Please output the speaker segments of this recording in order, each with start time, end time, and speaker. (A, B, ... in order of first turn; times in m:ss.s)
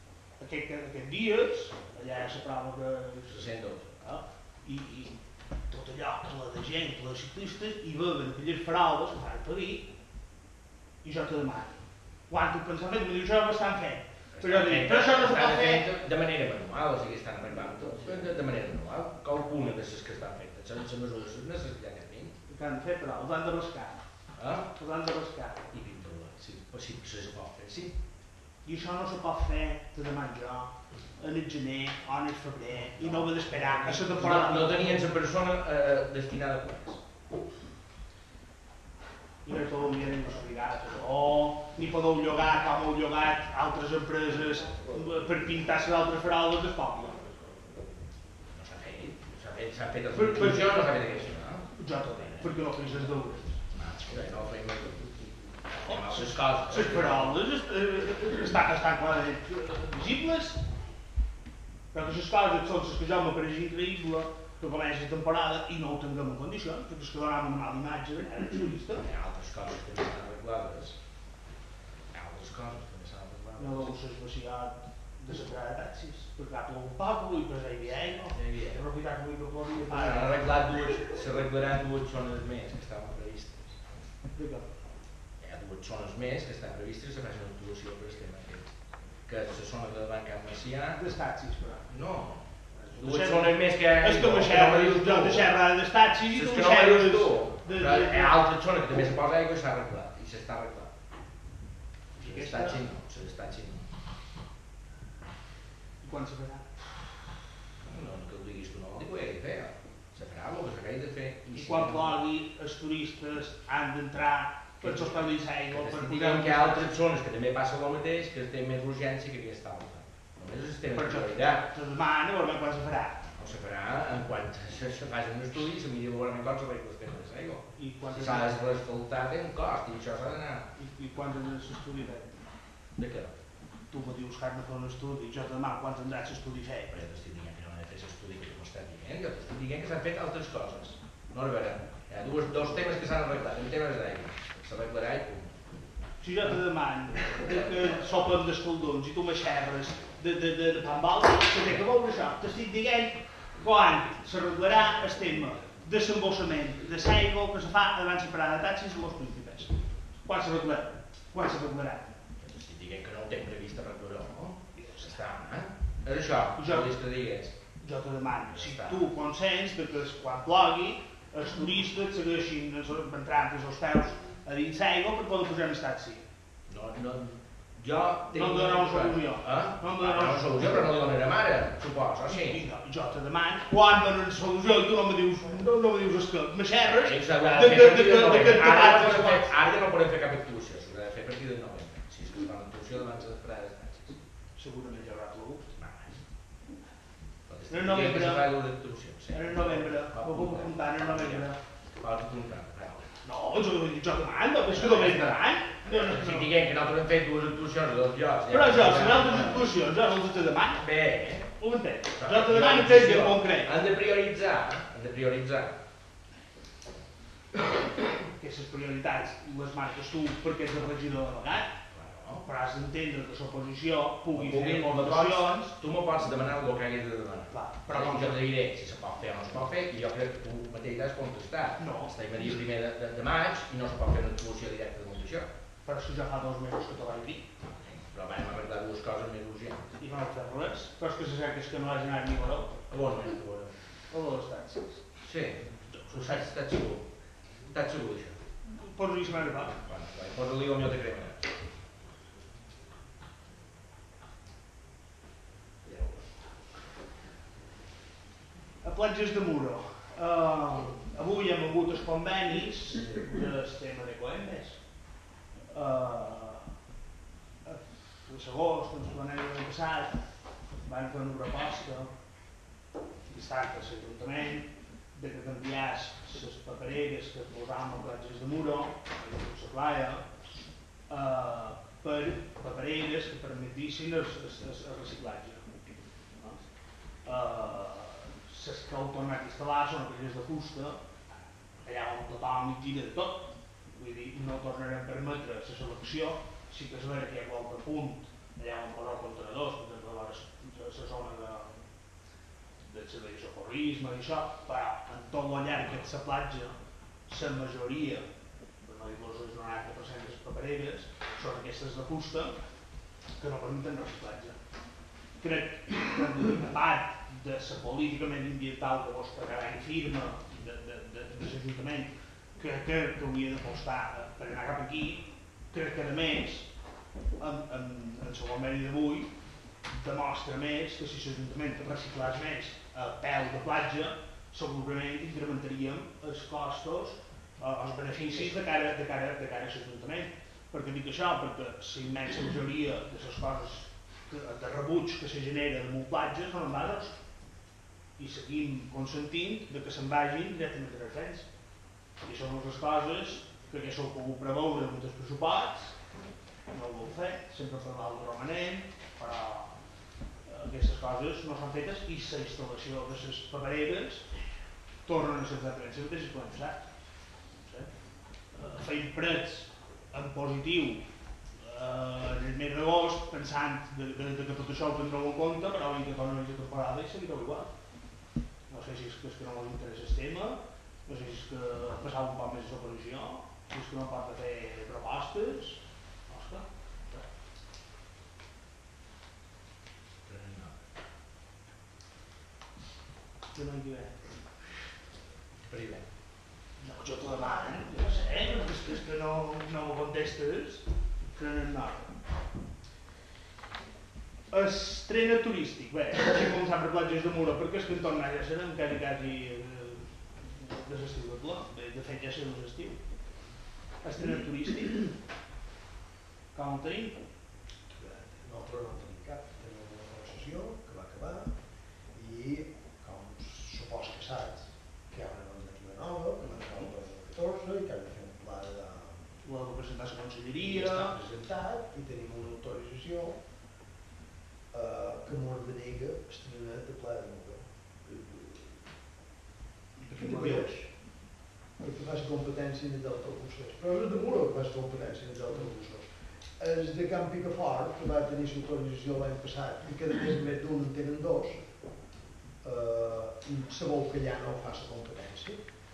0:00.4-0:09.9 A
0:03.3-0:04.0 B
0:11.0-0:15.9 A
0:14.3-0:22.3 B
0:22.5-0:24.1 A
0:24.4-0:24.7 B
0:24.7-0:25.7 A
0:25.7-0:28.0 B
0:28.6-0:35.1 A
0:33.0-0:37.0 B
0:39.4-0:47.5 A
0:48.5-0:57.4 B
0:50.1-0:50.9 A
0:51.7-0:53.4 A
0:55.8-1:00.6 A
1:01.9-1:09.0 A
1:09.0-1:11.4 B
1:12.1-1:13.9 B
1:13.6-1:21.0 A
1:18.3-1:18.8 B
1:19.8-1:23.8 B
1:24.3-1:24.7 A
1:25.4-1:31.1 B
1:31.0-1:31.9 A
1:31.9-1:35.6 B
1:32.7-1:38.4 A
1:36.2-1:40.9 B
1:42.2-1:43.9 B
1:42.2-1:42.8 A
1:46.0-1:46.8 A
1:47.8-1:52.2 B
1:51.5-1:56.9 A
1:54.8-2:01.7 B
2:00.9-2:03.2 A
2:03.4-2:10.7 B
2:07.8-2:08.6 A
2:10.8-2:12.4 A
2:13.0-2:13.3 B
2:13.9-2:16.9 A
2:16.9-2:26.0 B
2:26.2-2:42.2 A
2:27.2-2:27.9 B
2:42.4-2:47.6 B
2:44.7-2:45.2 A
2:46.6-2:47.0 A
2:47.8-2:56.2 A
2:48.5-2:49.1 B
2:56.7-3:02.6 B
2:58.3-3:00.9 A
3:02.3-3:09.6 A
3:06.8-3:14.2 B
3:14.6-3:15.7 A
3:15.8-3:16.2 B
3:17.5-3:23.1 B
3:17.7-3:18.5 A
3:19.3-3:21.6 A
3:23.2-3:26.5 A
3:24.7-3:29.8 B
3:28.5-3:30.9 A
3:30.8-3:31.6 B
3:31.6-3:33.8 A
3:32.2-3:35.8 B
3:38.4-3:41.8 A
3:41.9-3:42.4 B
3:42.4-3:45.7 A
3:44.3-3:55.5 B
3:47.5-3:48.4 A
3:51.8-3:52.6 A
3:55.8-3:57.4 A
3:57.8-3:59.9 B
4:00.0-4:02.7 A
4:02.9-4:03.8 B
4:04.1-4:05.0 A
4:05.2-4:08.4 B
4:05.9-4:06.4 A
4:08.6-4:09.7 A
4:09.7-4:11.4 B
4:15.8-4:16.5 B
4:18.8-4:24.8 A
4:25.7-4:26.7 A
4:27.6-4:30.2 A
4:30.8-4:32.1 A
4:33.3-4:40.2 A
4:41.1-4:45.7 A
4:47.2-4:51.0 A
4:51.8-4:53.4 A
4:53.9-5:01.8 A
5:02.8-5:06.8 A
5:07.3-5:08.3 A
5:08.8-5:12.6 A
5:13.4-5:14.6 A
5:15.4-5:26.7 A
5:27.4-5:29.3 A
5:29.9-5:47.2 A
5:38.2-5:38.5 B
5:48.2-5:51.5 A
5:52.2-5:56.0 A
5:56.7-5:59.8 A
6:00.4-6:04.2 A
6:05.0-6:06.9 A
6:07.6-6:07.9 A
6:08.5-6:11.0 A
6:11.6-6:17.7 A
6:18.7-6:27.2 A
6:30.2-6:30.8 B
6:33.5-6:34.3 A
6:35.7-6:36.1 B
6:36.8-6:42.1 A
6:44.5-6:53.0 A
6:54.0-6:55.1 A
6:56.5-6:57.2 A
6:57.9-7:01.6 C
7:02.1-7:09.3 C
7:09.4-7:11.1 A
7:10.6-7:13.4 C
7:14.7-7:18.9 C
7:20.0-7:20.8 A
7:20.1-7:20.9 C
7:21.8-7:31.7 C
7:32.6-7:35.7 C